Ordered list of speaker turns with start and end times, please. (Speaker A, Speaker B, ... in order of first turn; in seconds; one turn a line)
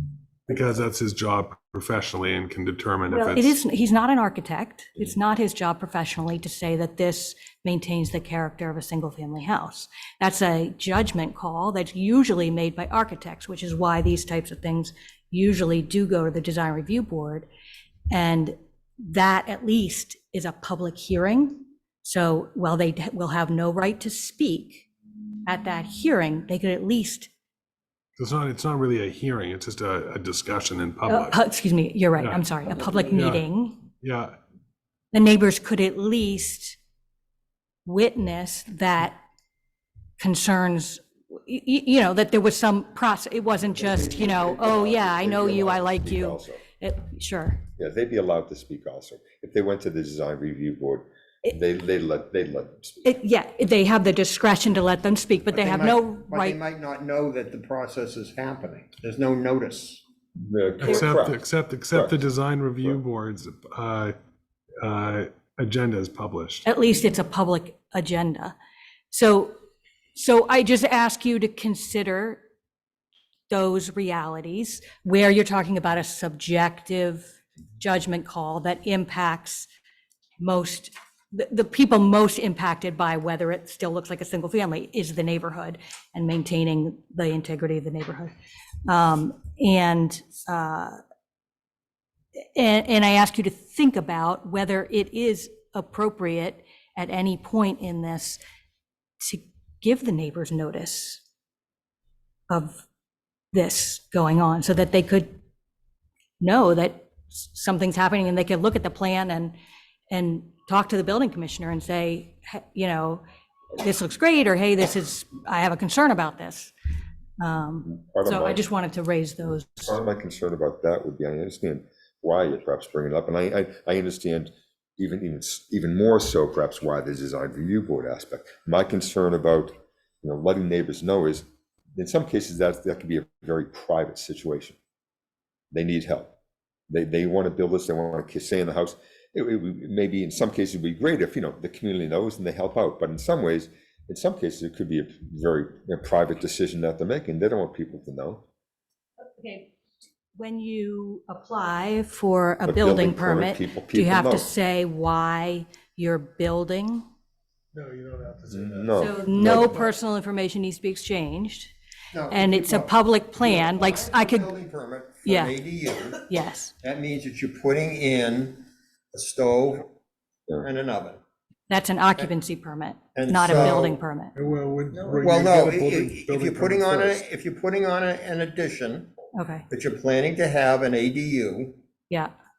Speaker A: 0.5-3.6
Speaker B: 3.1-17.5
Speaker B: 18.1-24.9
Speaker B: 25.4-27.3
Speaker A: 28.2-31.4
Speaker B: 31.1-33.8
Speaker A: 33.1-33.4
Speaker A: 34.0-34.4
Speaker B: 35.1-36.8
Speaker B: 37.8-39.2
Speaker B: 40.2-47.6
Speaker C: 43.8-46.6
Speaker C: 47.8-53.1
Speaker B: 53.0-56.6
Speaker D: 55.5-60.0
Speaker C: 60.4-62.2
Speaker A: 60.8-64.1
Speaker A: 64.8-66.6
Speaker B: 66.6-68.5
Speaker B: 69.1-69.5
Speaker B: 70.1-72.4
Speaker B: 73.5-79.7
Speaker B: 80.4-88.3
Speaker B: 88.8-91.0
Speaker B: 92.4-98.4
Speaker B: 99.2-101.2
Speaker B: 102.5-102.8
Speaker B: 103.5-105.4
Speaker B: 106.4-109.5
Speaker B: 110.1-113.2
Speaker B: 113.8-116.7
Speaker B: 117.4-120.0
Speaker C: 117.9-118.6
Speaker C: 119.8-134.8
Speaker C: 135.7-136.3
Speaker C: 136.9-148.4
Speaker B: 149.3-149.7
Speaker B: 150.3-157.0
Speaker C: 152.6-154.5
Speaker A: 157.7-159.7
Speaker C: 158.5-159.9
Speaker B: 158.9-161.7
Speaker D: 162.1-166.2
Speaker B: 162.3-164.5
Speaker B: 165.2-165.5
Speaker B: 166.2-166.7
Speaker D: 166.8-169.9
Speaker D: 170.6-171.2
Speaker B: 171.7-174.3
Speaker D: 173.1-174.0
Speaker A: 173.5-173.8
Speaker A: 174.3-177.2
Speaker D: 175.2-179.1
Speaker B: 179.3-179.7
Speaker D: 179.7-181.8